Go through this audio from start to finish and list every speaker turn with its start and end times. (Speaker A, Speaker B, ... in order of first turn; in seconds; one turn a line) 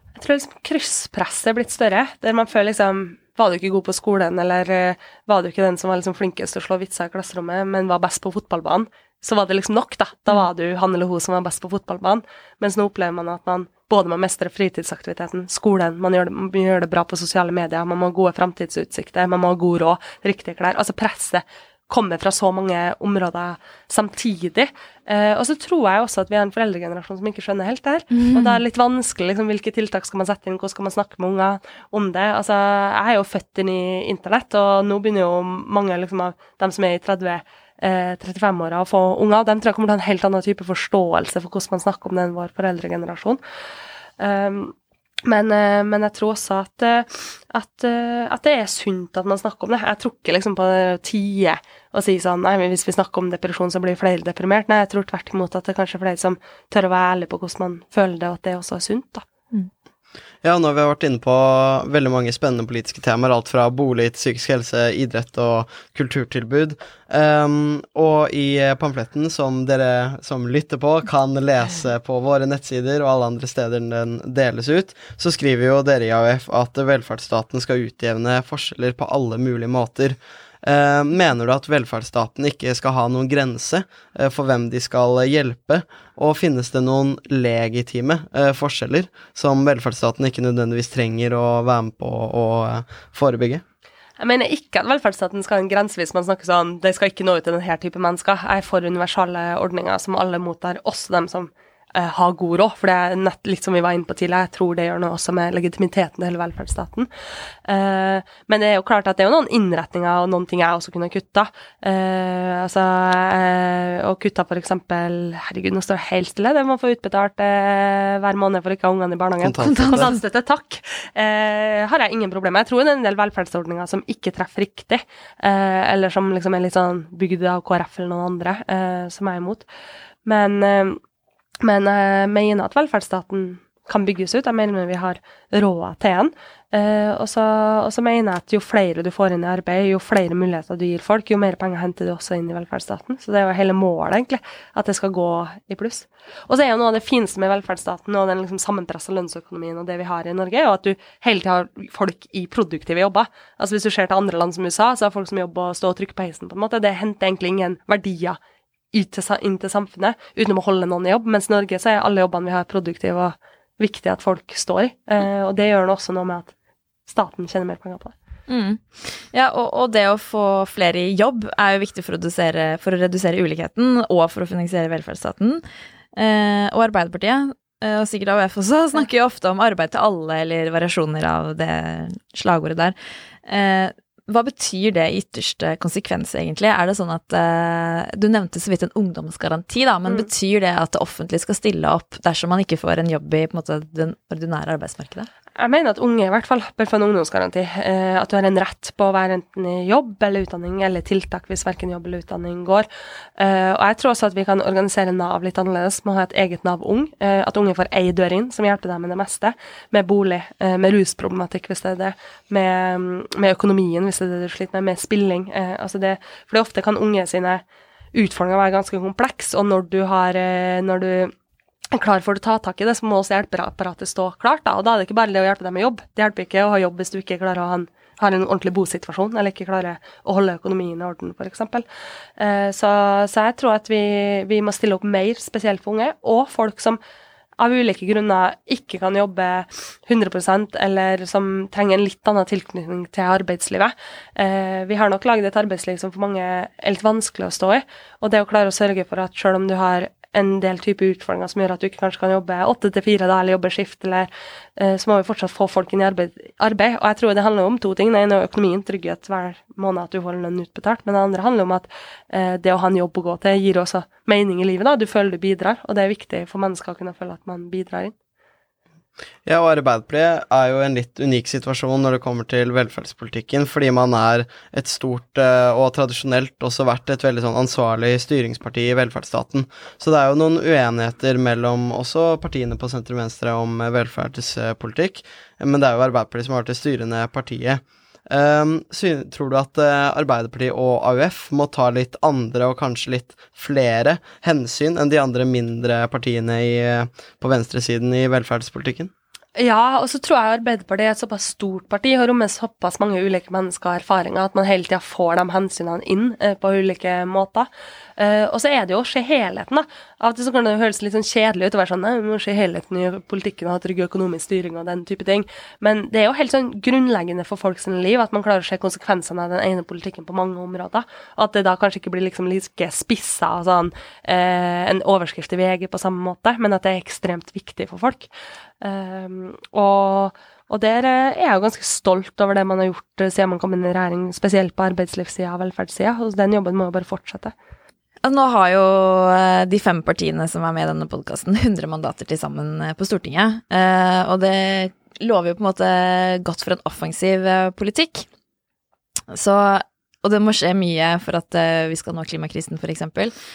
Speaker A: 0.2-43.4
Speaker B: 28.1-28.6
Speaker A: 44.2-59.2
Speaker C: 60.4-93.6
Speaker A: 94.2-107.1
Speaker A: 107.6-129.6
Speaker C: 119.4-120.1
Speaker B: 119.5-120.2
Speaker A: 130.2-131.0
Speaker A: 131.6-158.4
Speaker A: 158.9-166.5
Speaker A: 167.1-168.1
Speaker B: 168.5-175.6
Speaker B: 176.2-182.9
Speaker B: 183.4-195.3
Speaker A: 195.6-221.3
Speaker A: 221.9-231.8
Speaker A: 232.4-237.0
Speaker A: 237.6-268.1
Speaker C: 269.4-299.1
Speaker A: 299.6-328.3
Speaker A: 328.8-337.5
Speaker B: 338.2-348.3
Speaker B: 349.3-353.3